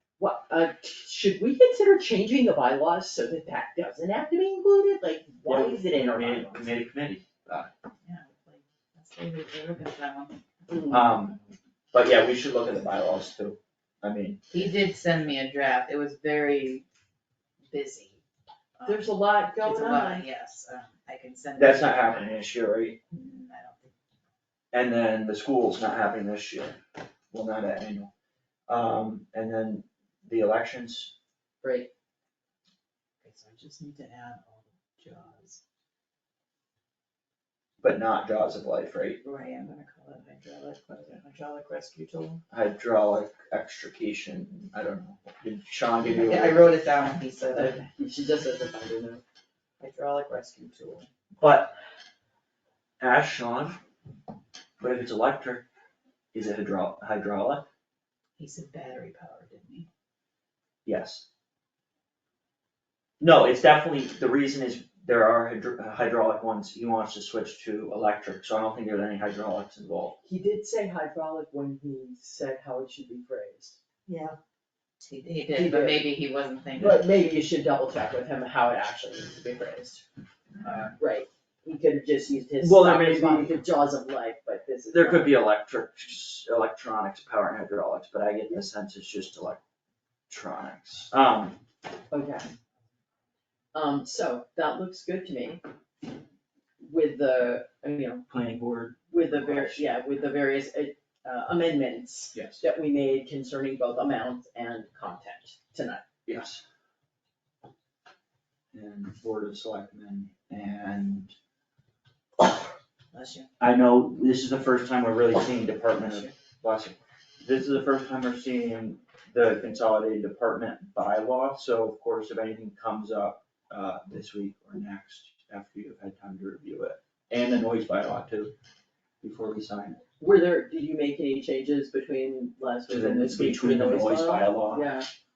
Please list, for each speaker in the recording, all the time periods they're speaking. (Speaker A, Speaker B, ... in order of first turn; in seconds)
Speaker A: 0.2-6.8, 10.7-11.1, 18.9-20.2, 31.6-31.9, 47.5-49.2, 70.2-73.8, 75.5-76.1, 76.8-80.0, 81.0-85.4, 92.1-92.5, 93.7-95.6, 96.8-98.2, 99.1-106.0, 130.2-135.1
Speaker B: 5.5-7.7, 10.9-11.4, 11.9-14.4, 21.6-23.0, 24.7-26.8, 27.3-28.1, 28.7-31.1, 37.8-39.2, 42.5-46.6, 51.4-51.8, 53.0-53.8, 54.8-55.7, 56.3-57.7, 60.9-61.3, 63.2-70.2, 82.6-83.6, 84.9-89.6, 90.3-91.6, 98.3-99.9, 102.3-102.6, 106.3-106.6, 108.7-111.3, 113.6-128.5, 129.2-130.0, 132.9-134.9
Speaker C: 8.1-10.4, 14.5-16.9, 17.7-18.2, 18.8-22.3, 23.1-23.9, 33.2-35.6, 39.2-42.4, 46.1-47.8, 49.8-51.1, 58.4-59.9, 74.1-74.3, 75.0-77.3, 80.6-80.9, 113.1-113.5